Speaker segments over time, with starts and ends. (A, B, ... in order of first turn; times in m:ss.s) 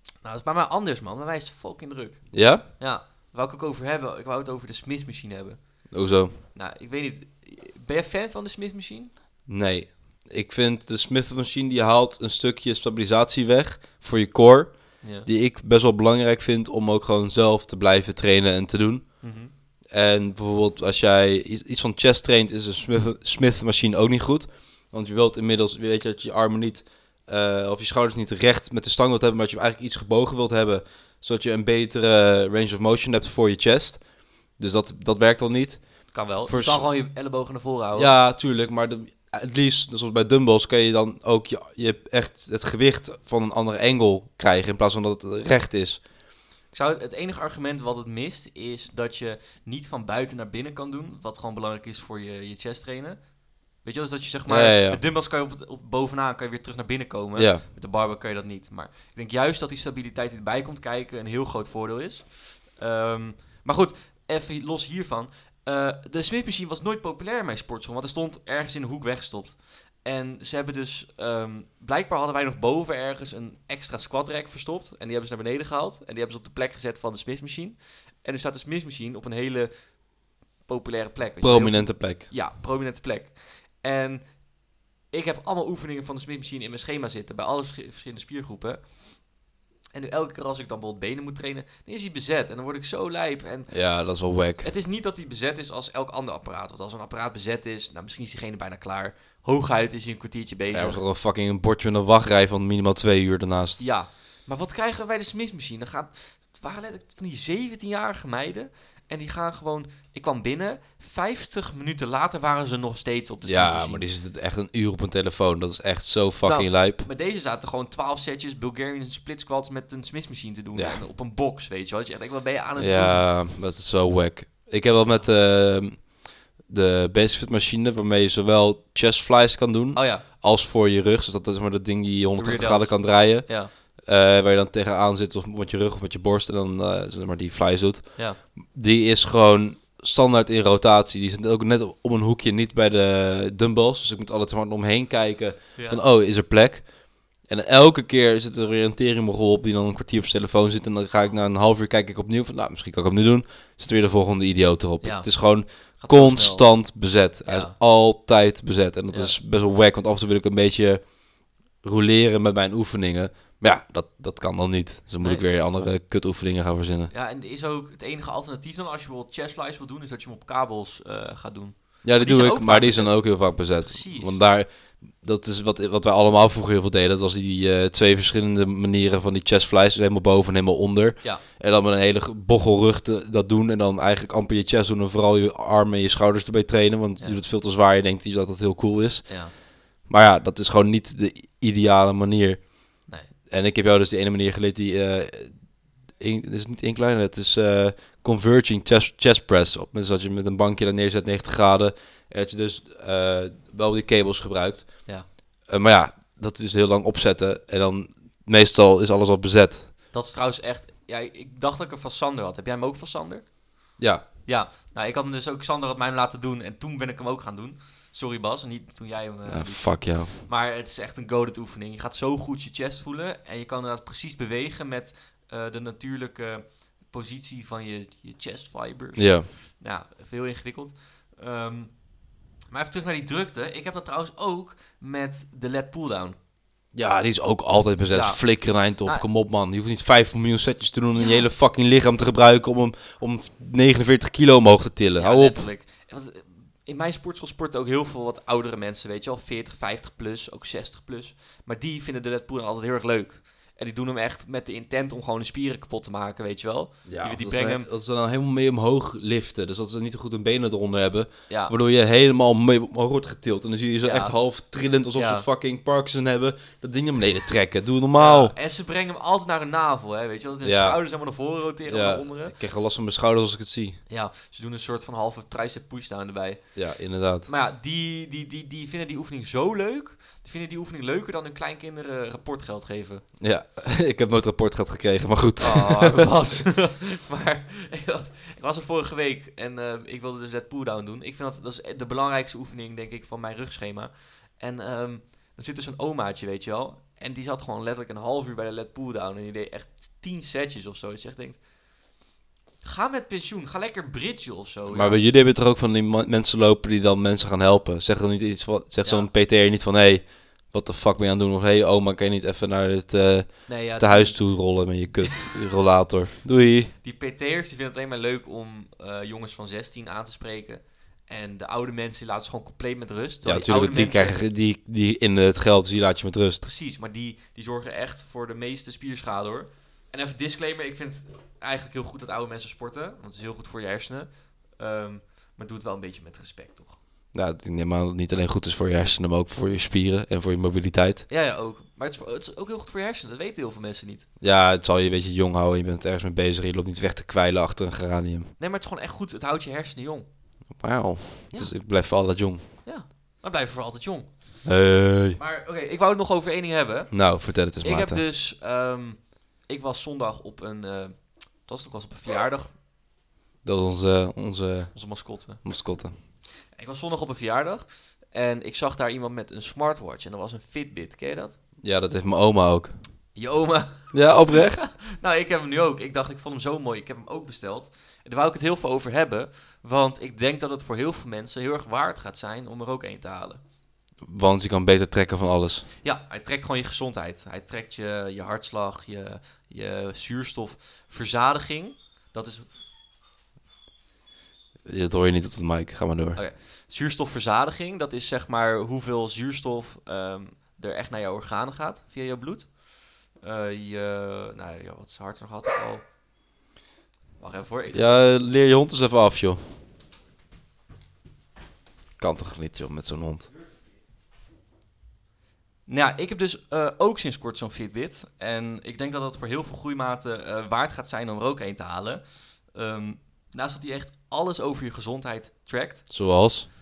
0:00.2-0:05.9 A
0:02.3-0:02.6 B
0:05.9-0:06.4 B
0:06.5-0:09.1 A
0:09.5-0:19.1 B
0:15.0-0:15.3 A
0:19.2-0:19.5 A
0:19.9-0:36.9 B
0:36.1-0:38.1 A
0:38.0-0:46.0 B
0:46.7-1:20.0 A
0:54.5-0:55.0 B
0:57.4-0:57.6 B
1:20.6-1:24.5 A
1:21.4-1:22.3 B
1:25.1-1:29.2 A
1:29.9-1:33.7 A
1:33.7-1:34.7 B
1:34.6-1:41.0 A
1:40.7-1:43.8 B
1:43.8-1:54.1 A
1:53.5-1:57.1 B
1:56.4-2:03.2 A
2:00.8-2:01.0 B
2:02.8-2:41.1 B
2:10.0-2:10.3 A
2:12.4-2:13.7 A
2:25.8-2:26.0 A
2:35.0-2:36.7 A
2:37.4-2:37.8 A
2:39.1-2:39.4 A
2:41.8-2:47.1 B
2:45.2-2:45.5 A
2:47.1-2:54.4 A
2:52.0-3:09.3 B
3:09.3-3:09.5 A
3:10.0-3:12.7 B
3:13.5-3:15.6 B
3:16.2-3:25.1 B
3:25.6-3:29.9 B
3:30.1-3:33.6 A
3:34.0-3:34.3 B
3:34.4-3:52.0 A
3:39.5-3:40.4 B
3:49.2-3:49.5 B
3:52.7-3:56.4 A
3:56.9-4:05.6 B
3:58.1-3:59.3 A
4:01.1-4:01.5 A
4:05.2-4:17.9 A
4:17.1-4:28.5 B
4:21.5-4:21.7 A
4:24.0-4:24.4 A
4:25.2-4:25.5 A
4:28.2-4:32.6 A
4:30.6-4:31.0 B
4:31.9-4:34.0 B
4:34.1-4:36.8 A
4:36.8-4:37.5 B
4:37.5-4:43.2 A
4:43.4-4:46.3 B
4:45.6-5:01.6 A
5:02.8-5:05.2 A
5:04.9-5:16.9 B
5:09.0-5:09.3 A
5:13.7-5:14.6 A
5:16.9-5:24.4 A
5:23.4-5:26.7 B
5:26.6-5:37.0 A
5:37.3-5:41.3 B
5:41.3-5:44.3 A
5:44.4-5:48.5 B
5:48.6-5:50.3 A
5:50.8-5:52.7 B
5:52.8-5:54.7 A
5:54.6-5:55.4 B
5:55.4-6:02.8 A
5:57.1-5:58.2 B
6:03.6-6:06.2 B
6:04.9-6:05.6 A
6:06.7-6:11.6 A
6:11.8-6:13.0 B
6:13.4-6:23.6 A
6:14.1-6:14.8 B
6:24.2-6:25.9 B
6:26.0-6:32.7 A
6:34.9-6:36.4 B
6:36.4-6:42.8 A
6:43.3-6:46.0 A
6:47.4-6:48.0 A
6:47.9-6:49.6 B
6:52.2-6:53.5 B
6:55.9-7:06.1 A
7:06.1-7:06.7 B